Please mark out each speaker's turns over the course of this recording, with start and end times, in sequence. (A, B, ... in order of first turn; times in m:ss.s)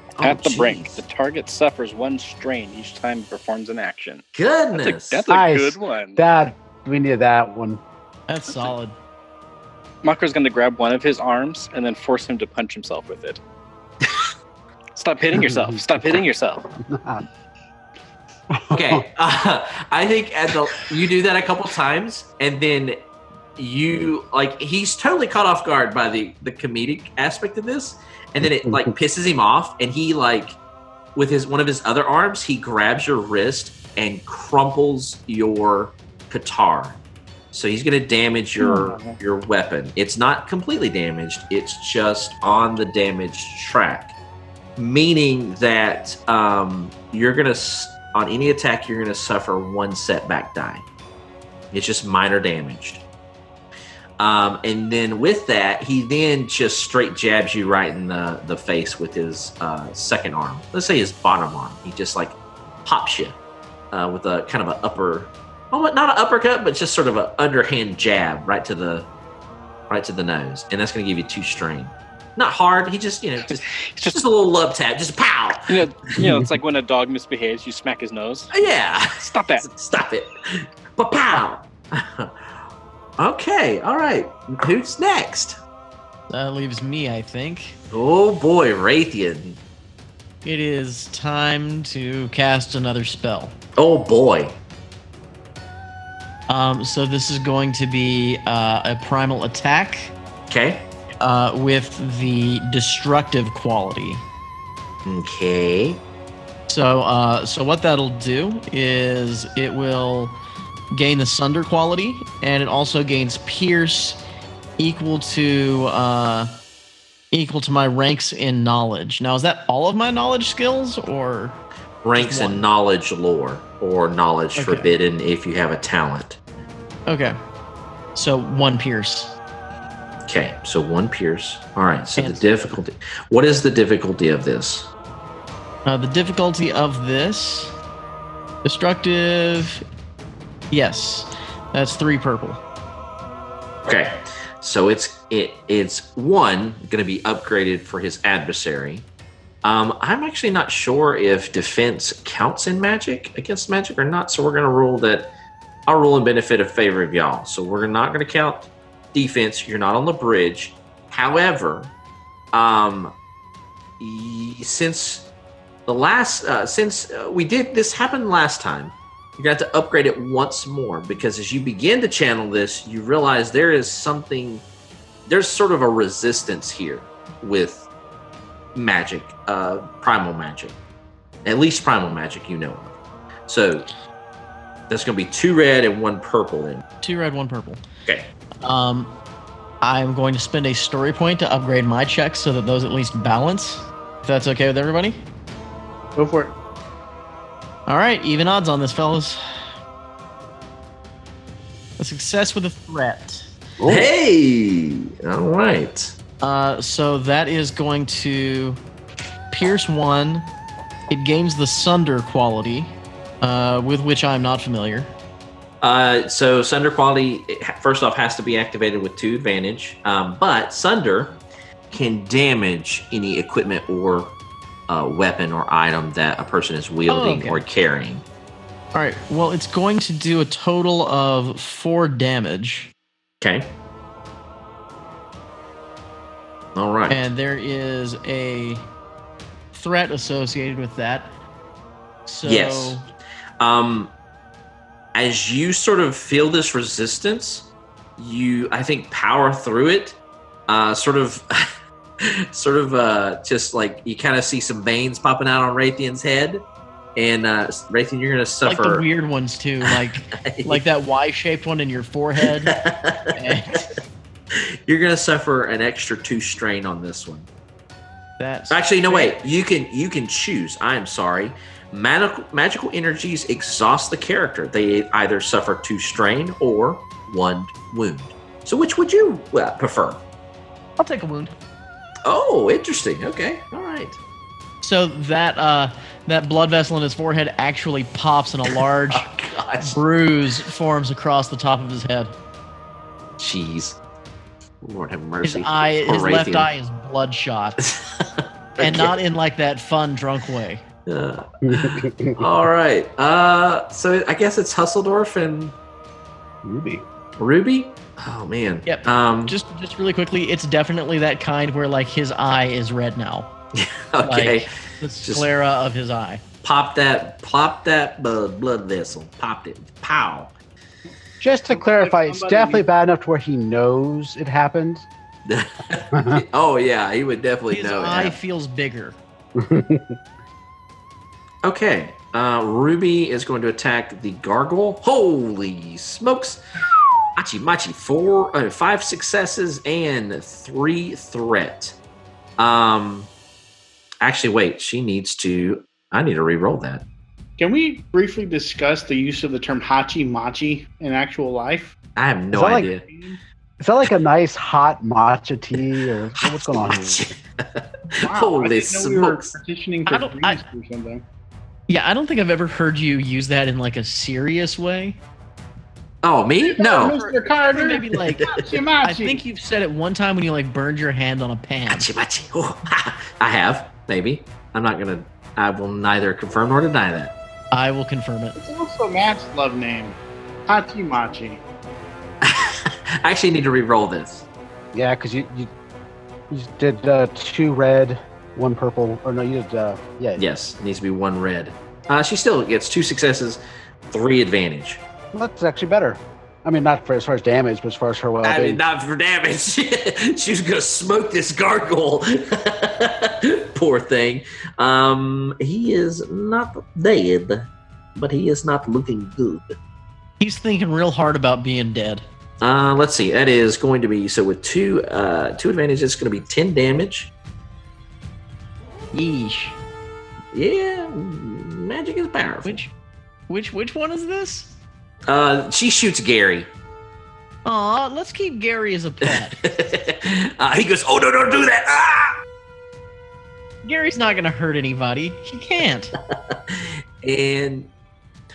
0:00.2-0:01.0 A
0:00.2-0:06.2 B
0:04.3-0:05.2 A
0:05.3-0:07.8 C
0:08.3-0:08.9 D
0:10.0-0:13.4 B
0:14.9-0:16.7 B
0:15.3-0:15.8 C
0:16.8-0:17.2 C
0:18.5-0:19.0 C
0:18.7-0:23.0 A
0:23.6-0:30.6 A
0:31.1-0:37.0 A
0:37.5-0:44.1 A
0:38.8-0:39.2 B
0:44.8-0:50.8 A
0:51.7-0:53.0 A
0:54.2-1:03.4 A
1:03.9-1:09.1 A
1:09.9-1:15.8 A
1:13.8-1:14.2 B
1:15.7-1:19.7 B
1:18.5-1:22.3 A
1:23.2-1:25.6 A
1:26.3-1:27.8 D
1:27.9-1:29.6 A
1:30.4-1:33.6 D
1:33.8-1:34.6 A
1:36.5-1:40.1 D
1:40.5-1:40.8 A
1:41.2-1:44.2 D
1:45.0-1:46.0 A
1:46.7-1:50.4 D
1:50.9-1:54.2 D
1:54.8-1:56.6 D
1:57.3-2:01.6 D
2:02.0-2:06.4 A
2:02.2-2:02.6 D
2:04.6-2:04.9 D
2:07.1-2:07.4 D
2:08.1-2:09.3 D
2:10.2-2:14.9 A
2:12.2-2:12.8 D
2:15.8-2:17.8 D
2:18.6-2:19.8 D
2:20.7-2:22.6 D
2:23.8-2:29.1 A
2:29.6-2:35.3 A
2:35.9-2:41.9 A
2:42.5-2:43.1 A
2:44.0-2:45.3 A
2:45.9-2:54.6 A
2:55.3-2:57.9 A
2:58.7-3:00.8 A
3:01.4-3:02.9 A
3:03.5-3:03.9 A
3:04.9-3:06.8 A
3:07.0-3:07.8 D
3:08.6-3:09.1 D
3:09.8-3:15.2 D
3:16.2-3:16.5 E
3:17.9-3:19.4 D
3:22.0-3:23.4 D
3:23.8-3:24.1 C
3:23.8-3:26.1 A
3:26.4-3:28.8 D
3:29.5-3:30.5 D
3:31.1-3:35.1 D
3:35.8-3:44.4 A
3:44.9-3:48.2 A
3:47.1-3:47.6 D
3:48.9-3:52.9 D
3:53.4-3:53.7 A
3:56.7-3:57.3 A
3:57.1-3:58.8 D
3:59.7-4:01.3 D
4:02.2-4:03.0 D
4:02.4-4:03.0 A
4:03.6-4:04.1 A
4:05.1-4:16.6 A
4:17.2-4:19.0 A
4:18.6-4:22.7 D
4:19.8-4:20.8 A
4:22.4-4:23.3 A
4:23.3-4:24.0 D
4:24.8-4:27.5 A
4:28.4-4:29.4 D
4:28.7-4:40.2 A
4:41.0-4:41.5 D
4:42.2-4:44.2 A
4:44.8-4:49.3 D
4:48.7-4:50.0 A
4:49.8-4:52.3 D
4:53.4-4:54.0 A
4:54.8-4:56.7 A
4:55.4-4:57.8 D
4:57.8-4:59.2 A
4:58.8-5:00.8 D
5:01.1-5:05.8 A
5:01.6-5:02.4 C
5:06.6-5:07.0 C
5:07.4-5:09.5 A
5:08.8-5:13.5 D
5:13.7-5:14.7 A
5:14.2-5:16.4 D
5:16.6-5:20.5 A
5:21.4-5:25.1 C
5:21.7-5:22.8 E
5:25.5-5:28.4 A
5:26.1-5:26.4 C
5:27.7-5:29.2 D
5:29.6-5:30.2 C
5:31.6-5:36.6 A
5:37.4-5:42.0 A
5:42.6-5:43.3 A
5:44.2-5:47.0 A
5:47.6-5:52.0 E
5:52.2-5:53.0 A
5:52.5-5:52.9 C
5:53.0-5:53.4 E
5:53.8-5:57.2 C
5:56.4-5:59.5 A
5:58.2-6:01.2 E
6:00.1-6:00.6 D
6:01.9-6:05.2 D
6:06.2-6:07.2 A
6:06.7-6:09.4 E
6:06.9-6:12.1 D
6:11.9-6:17.3 A
6:17.7-6:18.6 D
6:18.6-6:21.6 E
6:22.4-6:24.4 A
6:24.9-6:25.7 C
6:26.5-6:30.4 C
6:30.4-6:35.0 A
6:35.3-6:38.8 C
6:38.4-6:49.7 A
6:50.4-6:52.2 D
6:52.6-6:57.3 A
6:59.1-6:59.8 D
7:00.5-7:02.8 A
7:02.6-7:02.9 D
7:03.5-7:04.8 D
7:05.3-7:06.7 A
7:07.6-7:09.6 D
7:09.6-7:12.4 A
7:13.8-7:16.1 D
7:16.5-7:17.9 A